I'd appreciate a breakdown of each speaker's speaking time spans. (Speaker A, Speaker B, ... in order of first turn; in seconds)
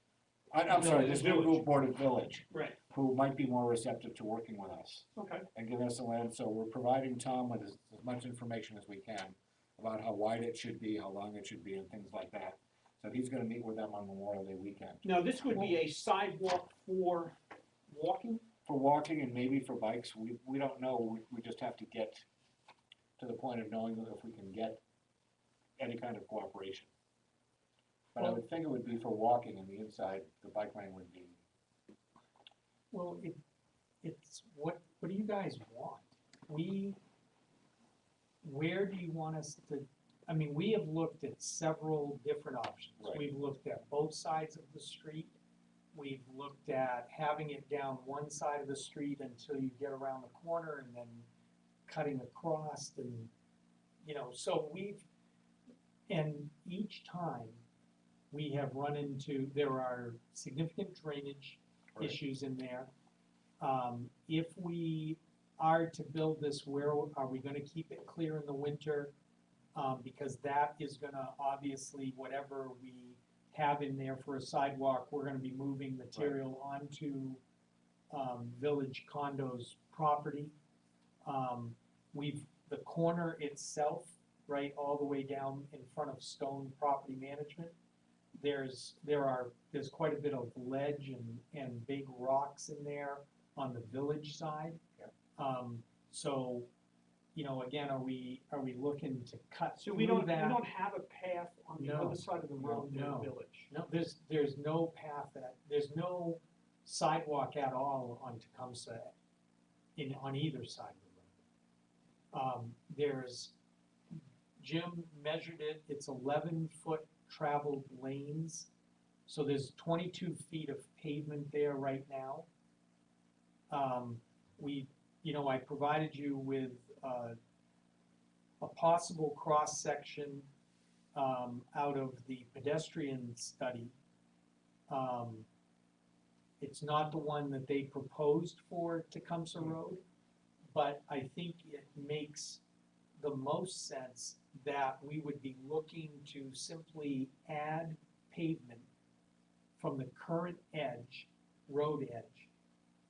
Speaker A: 0.5-15.0, 18.7-22.2, 23.2-24.8, 25.8-26.9, 28.1-31.4, 43.0-43.2
Speaker B: 0.7-1.6, 2.5-2.8, 5.2-5.5, 15.0-17.4, 17.9-18.5, 99.8-103.7
Speaker C: 32.9-33.4, 34.0-37.0, 38.4-45.4, 45.9-51.3, 51.9-53.3, 54.0-55.1, 56.1-57.6, 58.3-62.9, 63.6-69.1, 69.7-77.4, 78.1-80.5, 81.2-87.8, 88.3-94.8, 95.4-96.7, 97.3-100.6, 101.8-109.2, 110.0-111.4, 112.3-113.5, 114.1-118.7, 119.3-122.5, 123.7-127.4, 128.6-130.5, 131.2-133.9, 134.9-135.5, 136.6-140.0, 140.7-142.6, 143.2-148.9, 149.8-152.5